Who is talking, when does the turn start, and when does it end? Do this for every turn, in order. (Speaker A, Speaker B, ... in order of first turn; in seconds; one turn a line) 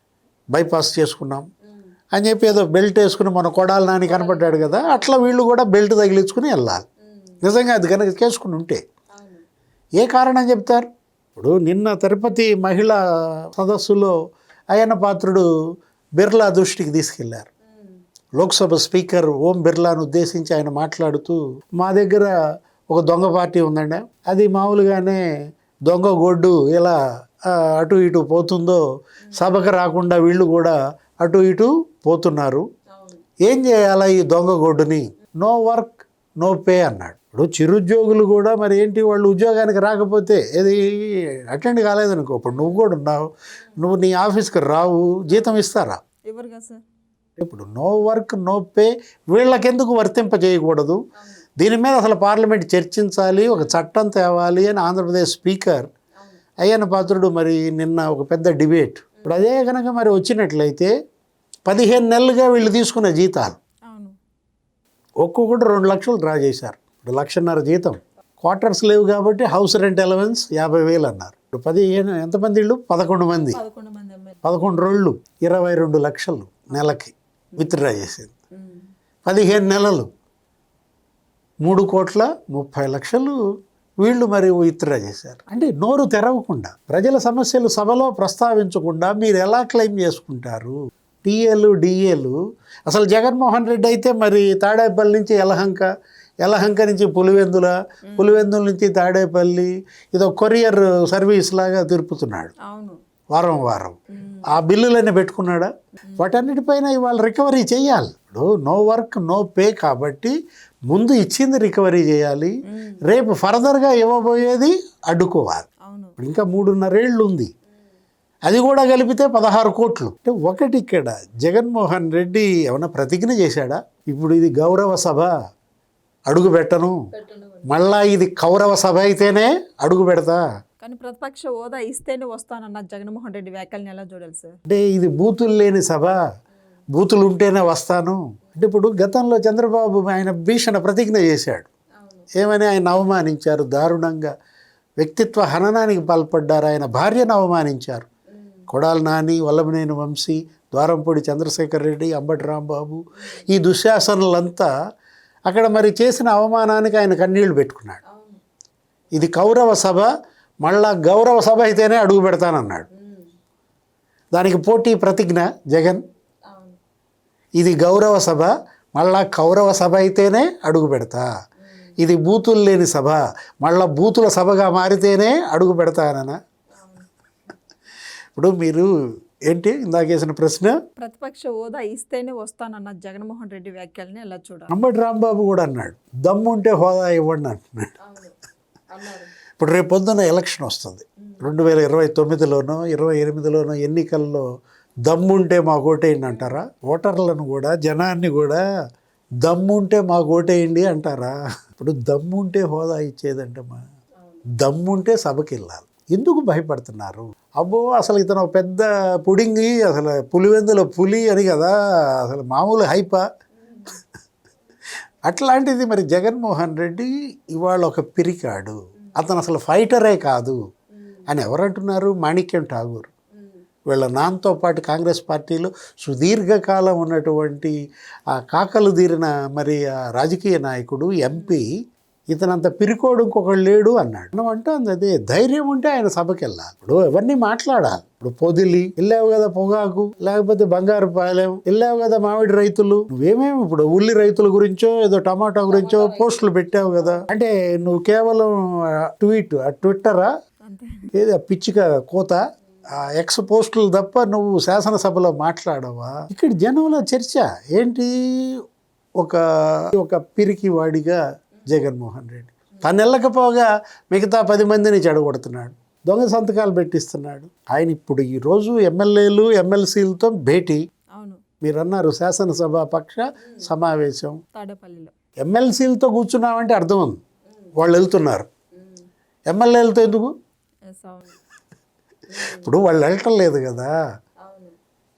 Speaker A: 0.5-1.4
Speaker A: 2.1-6.8
Speaker B: 4.0-5.2
Speaker A: 7.4-8.8
Speaker B: 9.2-9.4
Speaker A: 10.0-13.0
Speaker A: 13.5-14.1
Speaker A: 14.7-15.5
Speaker A: 16.2-17.5
Speaker B: 17.7-18.0
Speaker A: 18.4-22.3
Speaker A: 22.9-25.2
Speaker A: 25.9-28.8
Speaker A: 29.3-32.6
Speaker B: 32.9-33.2
Speaker A: 33.4-43.2
Speaker A: 43.8-46.0
Speaker B: 46.3-46.8
Speaker A: 47.4-51.0
Speaker A: 51.6-55.9
Speaker B: 53.5-53.8
Speaker A: 56.6-60.9
Speaker A: 61.7-63.6
Speaker B: 63.9-64.2
Speaker A: 65.2-73.6
Speaker B: 73.5-74.4
Speaker A: 74.4-78.3
Speaker B: 77.5-77.8
Speaker B: 78.6-78.9
Speaker A: 79.2-80.1
Speaker A: 81.6-83.4
Speaker A: 84.0-95.9
Speaker A: 96.4-102.5
Speaker B: 98.1-98.5
Speaker B: 102.6-103.0
Speaker A: 103.3-110.3
Speaker B: 104.1-104.5
Speaker A: 110.9-115.7
Speaker B: 112.7-113.0
Speaker B: 115.8-116.2
Speaker A: 116.2-117.5
Speaker A: 118.5-125.3
Speaker A: 126.3-127.0
Speaker B: 127.1-127.7
Speaker A: 127.7-130.4
Speaker B: 130.8-134.6
Speaker A: 134.7-136.2
Speaker A: 136.9-141.7
Speaker B: 142.0-142.3
Speaker A: 142.3-144.3
Speaker A: 145.0-148.1
Speaker B: 148.4-148.6
Speaker A: 148.7-154.7
Speaker A: 155.5-158.0
Speaker B: 158.1-158.4
Speaker A: 159.1-160.1
Speaker A: 160.6-162.9
Speaker B: 162.9-163.3
Speaker A: 164.3-166.0
Speaker B: 166.5-166.8
Speaker A: 167.6-171.2
Speaker A: 172.0-176.4
Speaker B: 176.8-177.1
Speaker A: 178.4-178.9
Speaker A: 179.5-180.8
Speaker B: 181.0-184.7
Speaker A: 184.7-187.9
Speaker B: 188.0-188.4
Speaker B: 188.9-189.3
Speaker A: 189.6-194.4
Speaker A: 195.1-198.6
Speaker A: 199.4-203.8
Speaker A: 204.6-213.2
Speaker B: 213.6-213.9
Speaker A: 215.2-220.6
Speaker A: 221.3-223.1
Speaker A: 223.9-227.7
Speaker A: 228.3-231.7
Speaker B: 231.3-231.6
Speaker A: 232.3-250.3
Speaker B: 245.7-246.4
Speaker B: 250.6-251.1
Speaker A: 251.1-258.6
Speaker A: 259.2-270.8
Speaker B: 271.1-271.4
Speaker A: 271.6-274.4
Speaker B: 274.5-275.1
Speaker A: 275.4-277.2
Speaker A: 277.8-278.4
Speaker B: 278.8-279.1
Speaker A: 279.5-280.3
Speaker B: 280.9-281.4
Speaker B: 282.3-282.7
Speaker A: 282.4-283.9
Speaker B: 284.4-284.7